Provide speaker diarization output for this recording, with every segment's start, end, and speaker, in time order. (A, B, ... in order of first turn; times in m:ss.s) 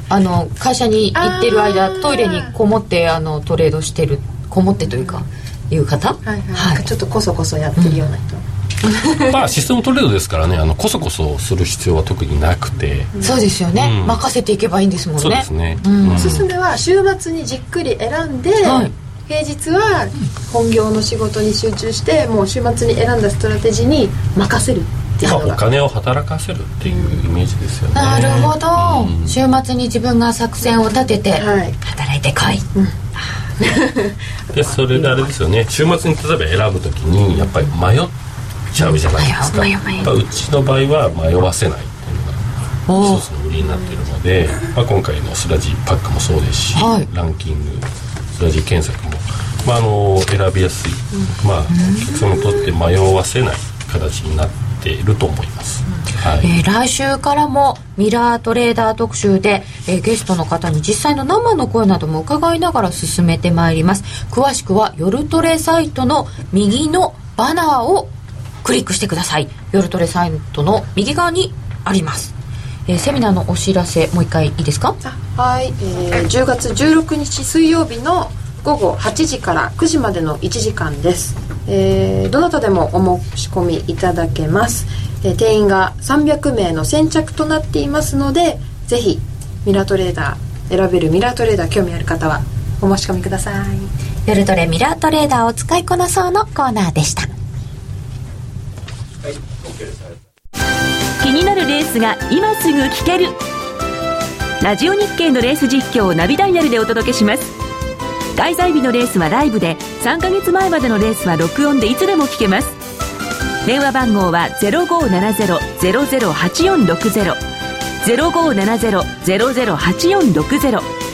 0:00.1-0:06.8 A
0:01.1-0:02.5 B
0:06.2-0:09.4 B
0:07.8-0:08.1 A
0:09.2-0:13.1 C
0:13.2-0:16.4 A
0:13.7-0:14.2 C
0:15.2-0:16.5 C
0:16.2-0:25.6 B
0:18.6-0:18.9 A
0:25.2-0:29.3 C
0:26.9-0:27.2 B
0:27.9-0:32.7 A
0:31.3-0:31.8 B
0:33.6-0:34.8 B
0:34.5-0:38.1 C
0:38.7-0:56.5 C
0:38.8-0:40.1 A
0:42.9-0:43.2 A
0:46.8-0:47.1 A
0:51.7-0:52.4 A
0:56.4-1:08.1 A
1:08.6-1:12.3 A
1:12.9-1:15.0 A
1:15.0-1:33.9 B
1:34.2-1:37.3 A
1:41.2-1:43.4 D
1:44.6-1:47.6 D
1:48.4-1:52.8 D
1:53.6-1:57.4 D
1:58.0-2:00.9 D